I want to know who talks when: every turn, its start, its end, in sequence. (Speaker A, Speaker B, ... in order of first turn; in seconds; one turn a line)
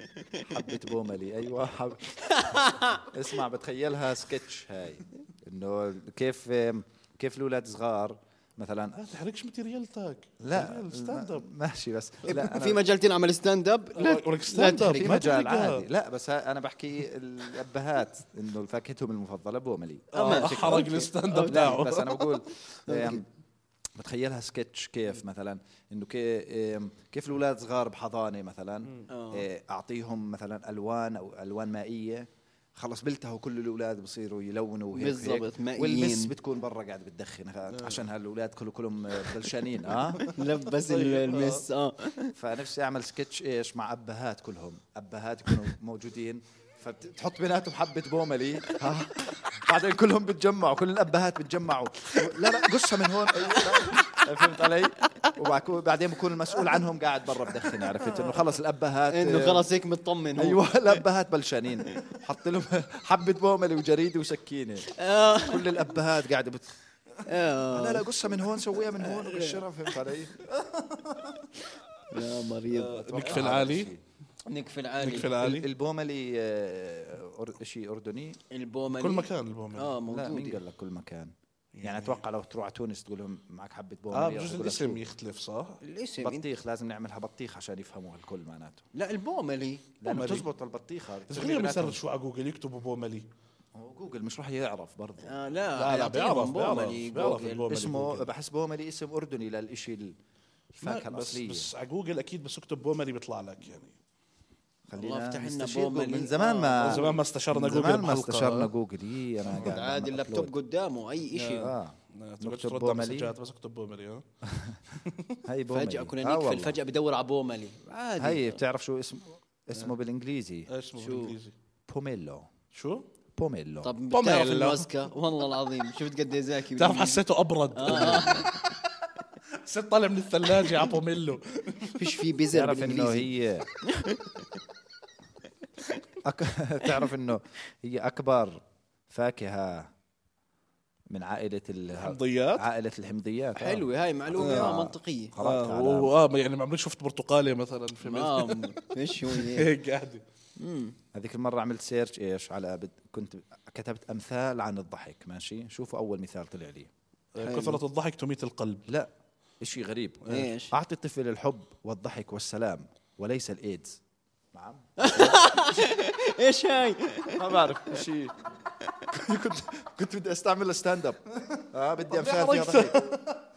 Speaker A: 0.5-9.0
Speaker B: 2.2-3.0
Speaker C: 9.0-11.4
Speaker A: 10.4-12.8
Speaker B: 12.2-15.2
Speaker C: 13.9-15.8
Speaker A: 14.9-23.2
Speaker B: 20.1-21.8
Speaker C: 20.1-22.4
Speaker B: 22.9-23.2
Speaker A: 24.0-40.2
Speaker B: 29.1-29.4
Speaker B: 34.9-36.3
Speaker C: 37.7-38.0
Speaker C: 40.3-41.6
Speaker B: 40.3-42.3
Speaker A: 42.4-59.7
Speaker B: 53.6-54.0
Speaker B: 59.1-61.0
Speaker A: 60.4-66.7
Speaker B: 64.9-65.8
Speaker B: 67.2-68.0
Speaker A: 67.7-70.5
Speaker B: 69.0-70.1
Speaker C: 70.7-71.1
Speaker B: 72.1-73.5
Speaker C: 72.7-73.9
Speaker A: 73.1-74.0
Speaker B: 74.5-75.3
Speaker C: 75.0-75.7
Speaker A: 75.3-78.4
Speaker B: 78.5-80.6
Speaker C: 78.9-80.0
Speaker A: 80.1-85.0
Speaker C: 81.7-82.2
Speaker C: 84.1-85.8
Speaker B: 85.8-86.5
Speaker A: 86.2-88.8
Speaker B: 88.9-89.8
Speaker A: 90.0-92.0
Speaker C: 90.1-90.5
Speaker C: 91.3-93.3
Speaker A: 93.7-95.3
Speaker B: 95.2-97.9
Speaker C: 95.8-98.3
Speaker A: 97.7-100.1
Speaker A: 100.7-101.7
Speaker C: 100.8-104.0
Speaker A: 104.9-110.5
Speaker B: 105.0-107.1
Speaker C: 106.8-108.7
Speaker B: 109.5-111.7
Speaker A: 111.4-113.3
Speaker C: 112.1-114.2
Speaker A: 114.4-114.8
Speaker C: 115.0-115.4
Speaker A: 115.4-116.8
Speaker B: 115.7-118.6
Speaker A: 118.2-120.7
Speaker C: 120.7-121.5
Speaker B: 121.0-121.3
Speaker A: 121.9-122.5
Speaker C: 122.7-123.0
Speaker A: 123.3-123.9
Speaker B: 123.8-127.2
Speaker C: 124.1-124.9
Speaker C: 126.7-128.5
Speaker B: 127.7-128.5
Speaker A: 127.8-128.5
Speaker C: 129.5-132.2
Speaker B: 131.9-133.3
Speaker A: 132.5-133.7
Speaker B: 133.8-134.6
Speaker A: 136.2-139.9
Speaker A: 141.1-146.1
Speaker C: 141.9-142.6
Speaker B: 143.6-145.3
Speaker C: 144.4-144.7
Speaker C: 145.4-150.2
Speaker B: 148.0-149.7
Speaker B: 150.6-150.9
Speaker A: 151.1-156.9
Speaker C: 157.3-158.9
Speaker B: 157.4-157.8
Speaker A: 158.9-164.0
Speaker C: 160.2-160.5
Speaker B: 160.3-160.7
Speaker A: 164.5-165.5
Speaker B: 165.0-167.4
Speaker A: 167.3-168.3
Speaker A: 169.1-173.0
Speaker C: 171.6-173.4